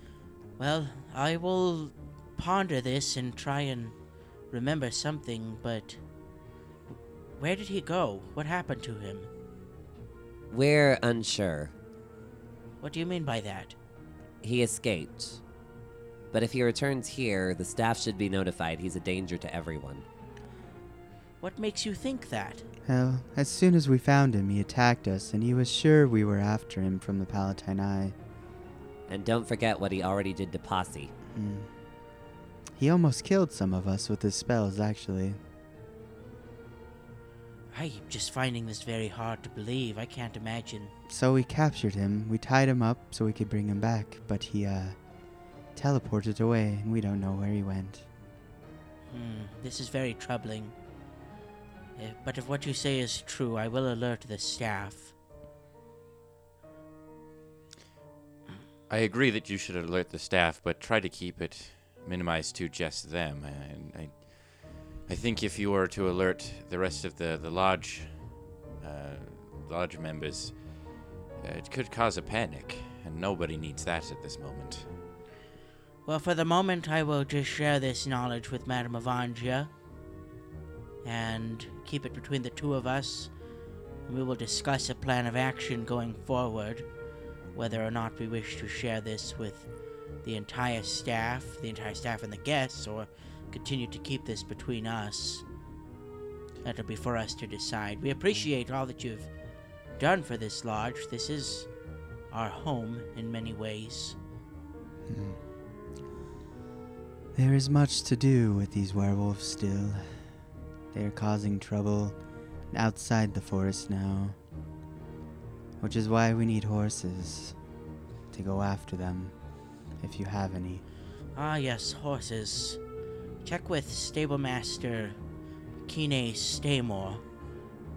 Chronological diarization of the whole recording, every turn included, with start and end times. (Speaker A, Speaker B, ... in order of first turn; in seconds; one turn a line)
Speaker A: 0.6-4.0
Speaker A: 4.5-6.0
Speaker A: 7.4-9.3
Speaker B: 10.5-11.7
Speaker A: 12.8-13.8
Speaker B: 14.4-15.4
Speaker B: 16.3-20.0
Speaker A: 21.4-22.6
Speaker C: 22.9-28.1
Speaker B: 29.1-31.1
Speaker C: 31.3-31.7
Speaker C: 32.8-35.4
Speaker A: 37.7-40.9
Speaker C: 41.1-45.0
Speaker C: 45.8-48.1
Speaker A: 49.1-50.7
Speaker A: 52.0-55.1
Speaker D: 58.9-70.6
Speaker D: 71.4-74.9
Speaker A: 76.1-79.7
Speaker A: 81.0-83.3
Speaker A: 84.1-86.9
Speaker A: 87.5-89.7
Speaker A: 90.2-95.4
Speaker A: 96.6-99.3
Speaker A: 100.0-101.7
Speaker A: 102.3-104.2
Speaker C: 105.1-105.4
Speaker C: 107.3-110.3
Speaker C: 110.9-112.2
Speaker C: 112.7-114.4
Speaker C: 115.8-117.6
Speaker C: 118.3-119.3
Speaker C: 120.0-120.8
Speaker A: 121.3-122.8
Speaker A: 123.4-125.2
Speaker A: 125.9-127.2